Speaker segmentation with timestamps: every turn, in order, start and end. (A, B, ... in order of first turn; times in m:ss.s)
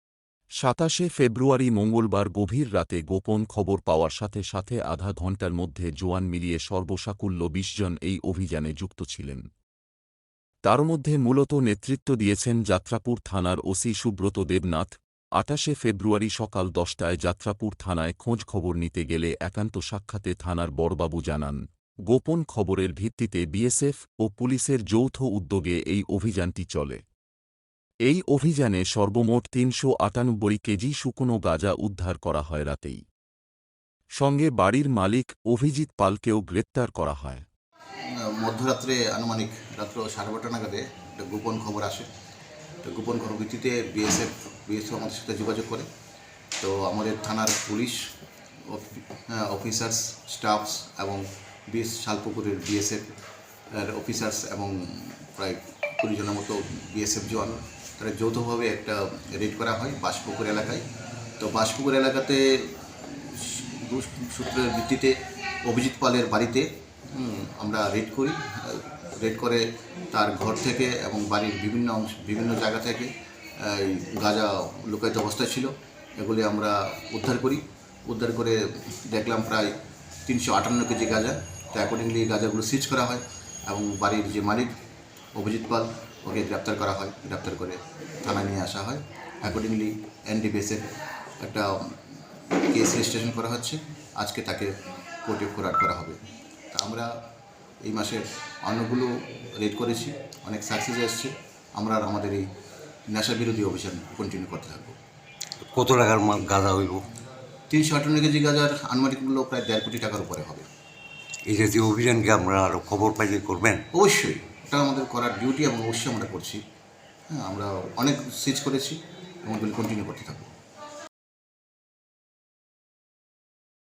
0:00.6-0:09.4 A
0:10.6-0:27.0 A
0:28.0-0:33.0 A
0:34.2-0:37.4 A
0:38.2-0:42.1 B
0:42.8-0:45.8 B
0:46.6-0:48.0 B
0:48.7-0:53.0 B
0:53.8-1:00.8 B
1:01.4-1:05.1 B
1:05.6-1:19.7 B
1:20.2-1:24.7 B
1:25.3-1:30.8 B
1:31.4-1:32.0 B
1:32.7-1:34.7 B
1:35.2-1:36.2 B
1:36.7-1:37.1 B
1:37.8-1:42.4 B
1:43.1-1:45.0 B
1:45.7-1:47.0 C
1:47.7-1:50.6 B
1:51.5-1:53.8 C
1:53.9-1:56.6 B
1:57.3-2:00.5 B